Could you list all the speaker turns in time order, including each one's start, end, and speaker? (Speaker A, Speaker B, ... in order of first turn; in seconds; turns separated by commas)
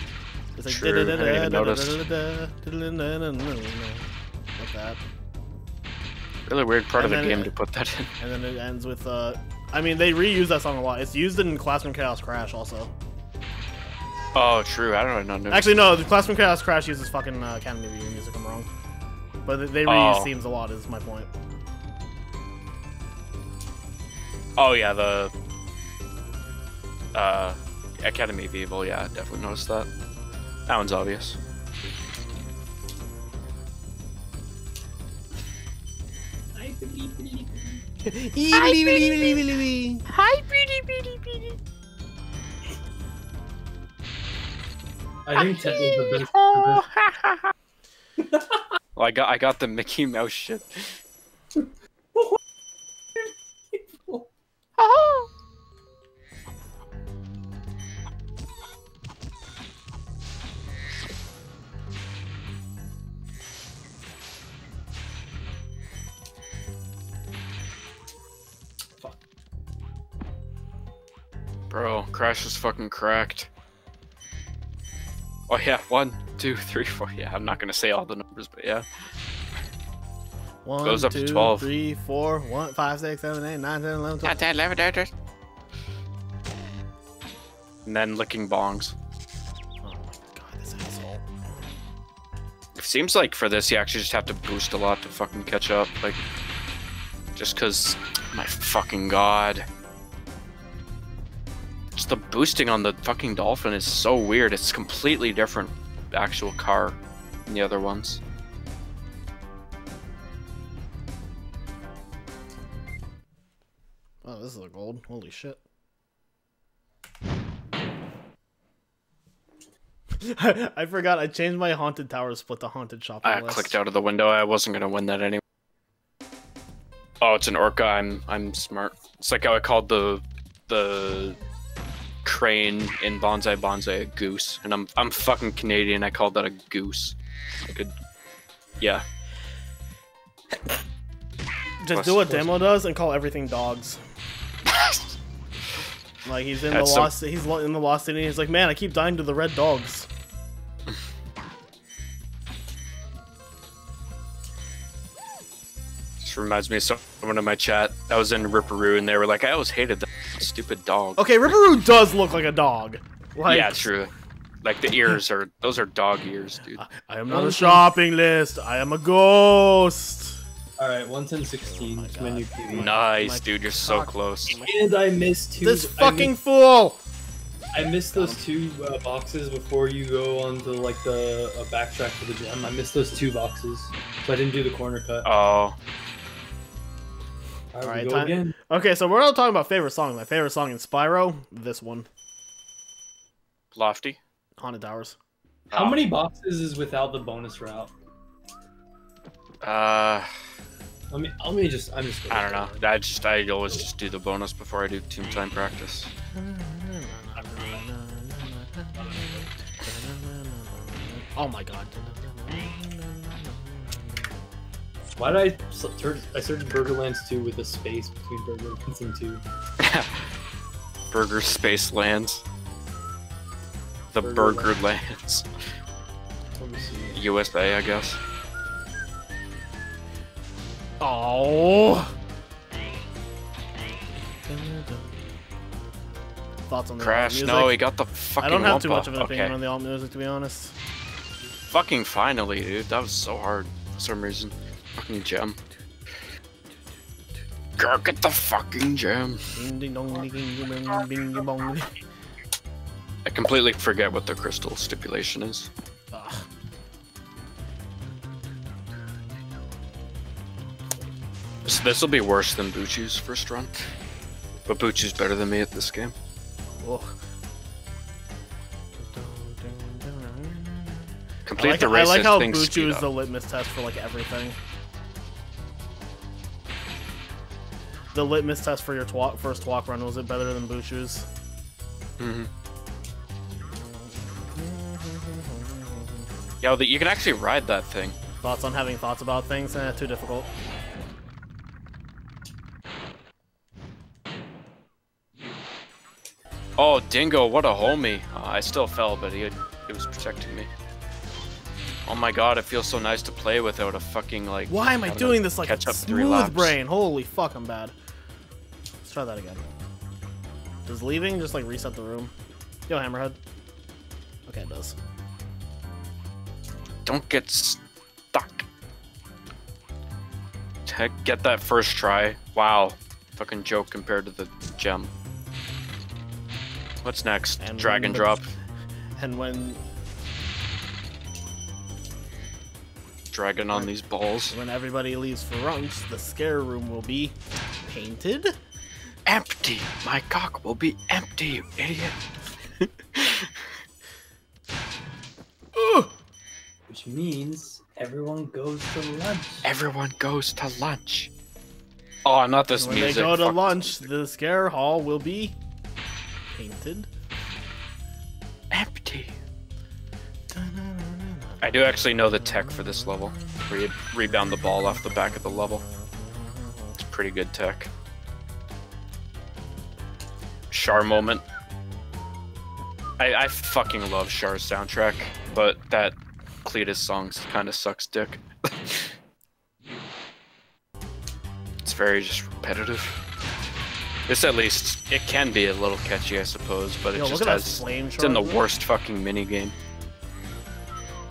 Speaker A: 0.6-5.0, Speaker B: 0.7-2.0, Speaker B: 6.5-8.1, Speaker A: 7.0-7.5, Speaker A: 8.2-12.9, Speaker B: 14.3-15.8, Speaker A: 15.5-18.7, Speaker A: 19.4-21.3, Speaker B: 19.9-20.3, Speaker B: 24.6-25.3, Speaker B: 27.1-29.9, Speaker B: 30.7-31.4, Speaker C: 36.5-37.8, Speaker A: 38.0-40.0, Speaker B: 38.5-39.4, Speaker B: 40.1-41.6, Speaker C: 45.2-46.9, Speaker B: 45.4-47.5, Speaker C: 48.2-48.7, Speaker B: 49.0-50.9, Speaker C: 51.5-52.4, Speaker C: 53.2-54.3, Speaker B: 54.8-55.3, Speaker B: 71.7-73.5, Speaker B: 75.5-78.8, Speaker A: 80.6-84.4, Speaker B: 80.8-81.7, Speaker B: 84.2-85.1, Speaker B: 87.8-88.9, Speaker A: 89.8-91.3, Speaker B: 92.8-96.2, Speaker B: 97.3-99.7, Speaker B: 102.0-108.2, Speaker A: 114.2-115.6, Speaker A: 120.2-123.8, Speaker B: 123.2-125.4, Speaker B: 127.2-131.4, Speaker B: 132.2-137.1, Speaker A: 141.8-144.0, Speaker B: 141.9-142.8, Speaker B: 144.7-145.1, Speaker A: 146.2-150.1, Speaker B: 146.7-147.1, Speaker B: 156.2-161.2, Speaker A: 161.2-163.9, Speaker B: 163.5-164.1, Speaker B: 164.6-166.8, Speaker A: 166.8-170.4, Speaker C: 167.3-167.8, Speaker C: 170.8-172.9, Speaker A: 171.7-174.7, Speaker B: 172.7-174.7, Speaker C: 174.5-176.3, Speaker A: 175.4-177.0, Speaker C: 177.7-185.3, Speaker A: 178.1-178.4, Speaker B: 185.2-185.8, Speaker C: 187.7-188.6, Speaker A: 187.8-192.1, Speaker B: 193.7-194.2, Speaker A: 194.6-195.2, Speaker B: 195.7-196.0, Speaker C: 195.7-197.9, Speaker B: 199.6-200.3, Speaker C: 201.1-202.8, Speaker B: 202.3-206.1, Speaker A: 206.3-214.3, Speaker C: 208.9-209.4, Speaker C: 215.2-219.4, Speaker B: 219.8-220.3, Speaker B: 221.1-222.4, Speaker B: 224.1-225.4, Speaker C: 224.2-224.8, Speaker C: 226.6-227.2, Speaker B: 227.1-228.2, Speaker A: 231.0-232.1, Speaker A: 234.4-235.2, Speaker A: 236.7-237.8, Speaker B: 237.0-239.5, Speaker A: 238.4-240.7, Speaker B: 241.7-245.6, Speaker B: 247.8-249.5, Speaker A: 249.5-252.0, Speaker B: 253.2-255.7, Speaker A: 256.1-256.5, Speaker B: 261.6-263.8, Speaker B: 264.7-266.1, Speaker A: 266.8-267.1, Speaker A: 268.9-274.6, Speaker B: 271.4-273.1, Speaker A: 278.1-281.3, Speaker B: 282.2-282.5, Speaker A: 284.5-286.3, Speaker B: 286.6-288.1, Speaker A: 288.4-290.5, Speaker B: 296.8-300.7, Speaker B: 302.1-306.8, Speaker A: 304.7-307.9, Speaker A: 309.0-309.6, Speaker A: 310.9-312.3, Speaker A: 312.9-313.4, Speaker A: 314.5-315.0, Speaker B: 317.0-317.8, Speaker B: 318.3-318.6, Speaker B: 320.9-325.1, Speaker B: 327.0-328.5, Speaker A: 327.6-328.5, Speaker A: 329.2-329.8, Speaker B: 333.3-334.5, Speaker A: 334.5-337.4, Speaker A: 337.9-338.5, Speaker B: 339.2-342.1, Speaker B: 342.8-343.5, Speaker A: 345.7-346.1, Speaker C: 346.9-349.7, Speaker B: 349.6-351.3, Speaker B: 352.2-354.1, Speaker A: 352.8-355.6, Speaker A: 356.5-357.1, Speaker B: 358.7-359.3, Speaker A: 360.5-363.7, Speaker B: 361.6-365.8, Speaker A: 364.5-367.0, Speaker B: 367.0-367.9, Speaker B: 370.7-371.4, Speaker B: 373.2-379.1, Speaker B: 381.8-383.2, Speaker B: 384.3-389.7, Speaker A: 387.1-388.6